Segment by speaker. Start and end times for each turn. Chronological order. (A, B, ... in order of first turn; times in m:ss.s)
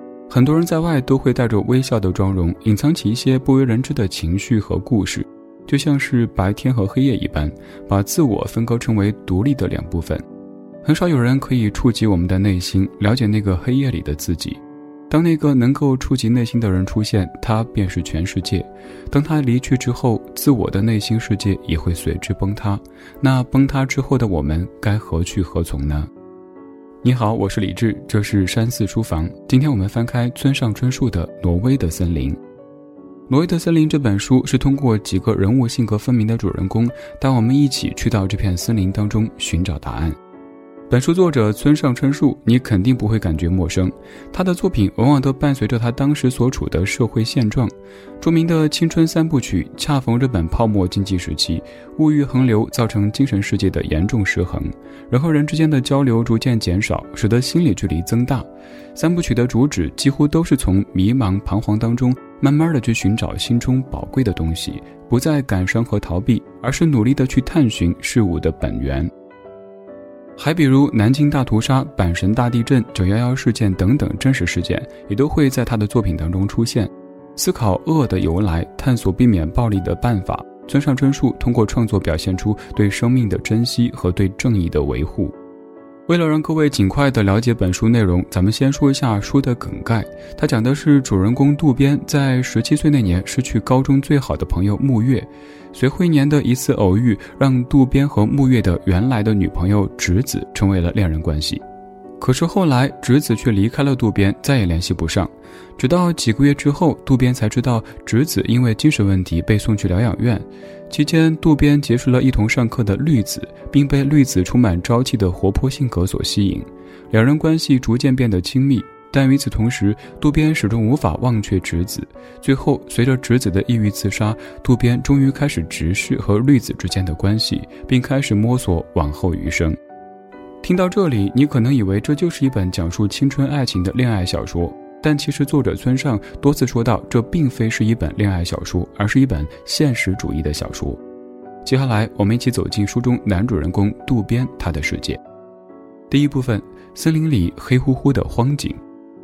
0:00.3-0:10.2 A
0:10.8-0:26.1 A
0:27.0-0:32.4 A
0:33.3-0:40.2 A
0:40.9-1:09.1 A
1:10.4-1:25.3 A
1:26.1-1:41.6 A
1:42.2-2:09.8 A
2:10.6-2:21.0 A
2:21.6-2:25.2 A
2:26.1-2:28.8 A